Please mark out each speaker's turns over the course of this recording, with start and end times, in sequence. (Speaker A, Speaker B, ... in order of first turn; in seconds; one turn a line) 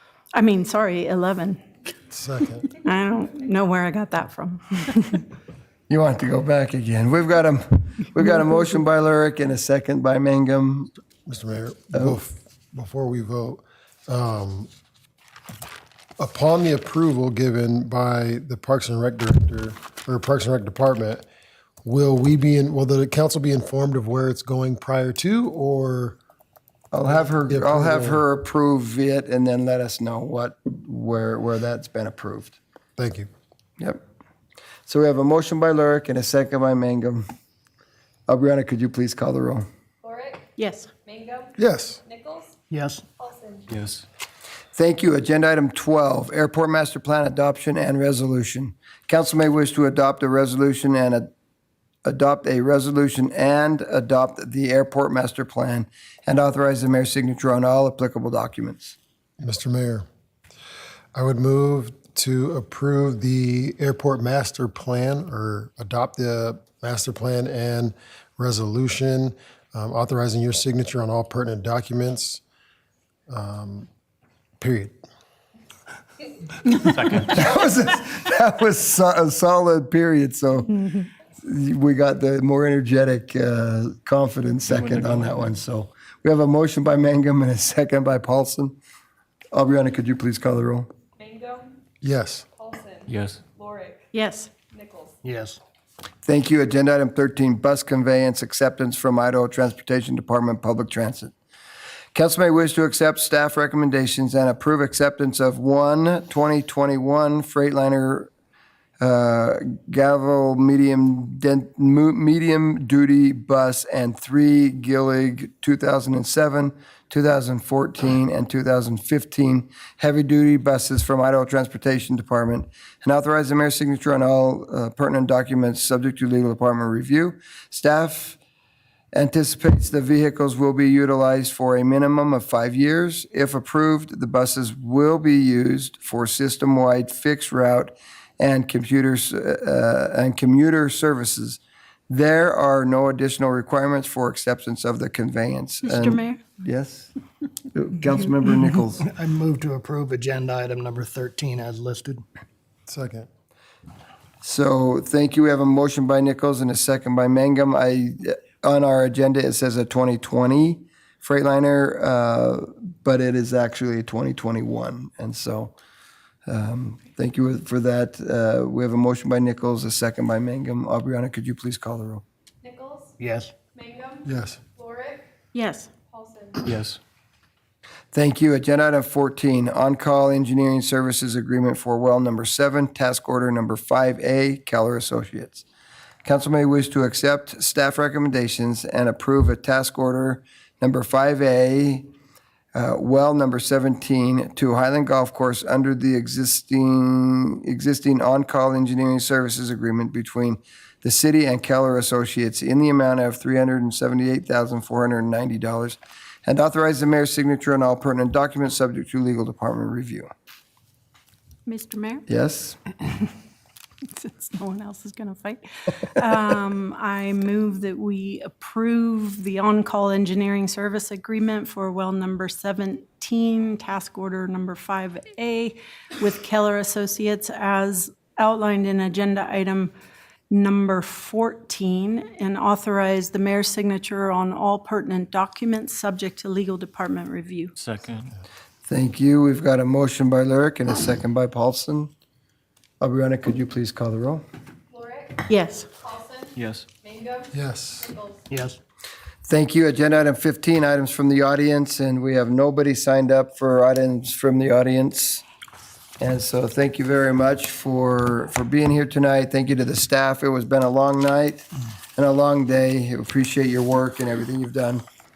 Speaker A: 0.3-1.6
Speaker B: 2.1-2.7
Speaker A: 2.7-5.2
Speaker C: 5.9-10.9
Speaker B: 11.2-14.7
Speaker B: 16.2-21.2
Speaker B: 21.8-26.2
Speaker C: 26.9-32.6
Speaker B: 27.1-28.2
Speaker B: 33.0-33.3
Speaker C: 34.9-37.2
Speaker C: 38.3-39.6
Speaker D: 40.0-40.5
Speaker A: 40.6-40.9
Speaker D: 41.0-41.5
Speaker B: 41.6-42.0
Speaker D: 42.1-42.5
Speaker E: 42.7-43.0
Speaker D: 43.2-43.7
Speaker F: 43.7-44.0
Speaker C: 44.7-51.3
Speaker C: 52.0-59.0
Speaker B: 59.4-60.0
Speaker B: 61.1-72.4
Speaker B: 73.3-73.9
Speaker B: 74.6-75.0
Speaker F: 76.8-77.5
Speaker C: 77.2-88.8
Speaker F: 84.7-85.5
Speaker C: 89.5-90.9
Speaker D: 91.2-91.8
Speaker B: 92.0-92.5
Speaker D: 92.6-94.0
Speaker F: 93.1-93.4
Speaker A: 94.1-94.5
Speaker D: 94.7-95.2
Speaker E: 95.2-95.6
Speaker C: 96.2-101.3
Speaker C: 102.1-108.3
Speaker C: 109.0-128.4
Speaker C: 129.1-147.1
Speaker A: 145.9-146.4
Speaker C: 147.7-149.1
Speaker E: 149.0-152.2
Speaker B: 152.9-153.3
Speaker C: 154.4-165.7
Speaker C: 166.5-172.2
Speaker D: 172.6-173.2
Speaker E: 173.2-173.5
Speaker D: 173.7-174.2
Speaker B: 174.2-174.6
Speaker D: 174.8-175.3
Speaker A: 175.5-175.9
Speaker D: 176.1-176.7
Speaker F: 176.6-177.0
Speaker C: 178.1-185.6
Speaker C: 186.2-192.1
Speaker C: 192.7-210.3
Speaker A: 211.7-212.3
Speaker C: 212.3-212.8
Speaker A: 214.1-229.9
Speaker A: 230.5-237.7
Speaker F: 237.8-238.3
Speaker C: 238.9-242.1
Speaker C: 243.0-244.4
Speaker D: 244.9-245.4
Speaker A: 245.5-245.9
Speaker D: 246.0-246.5
Speaker F: 246.6-246.9
Speaker D: 247.0-247.5
Speaker B: 247.5-248.2
Speaker D: 248.1-248.4
Speaker E: 248.5-248.8
Speaker C: 249.4-255.4
Speaker C: 256.2-265.0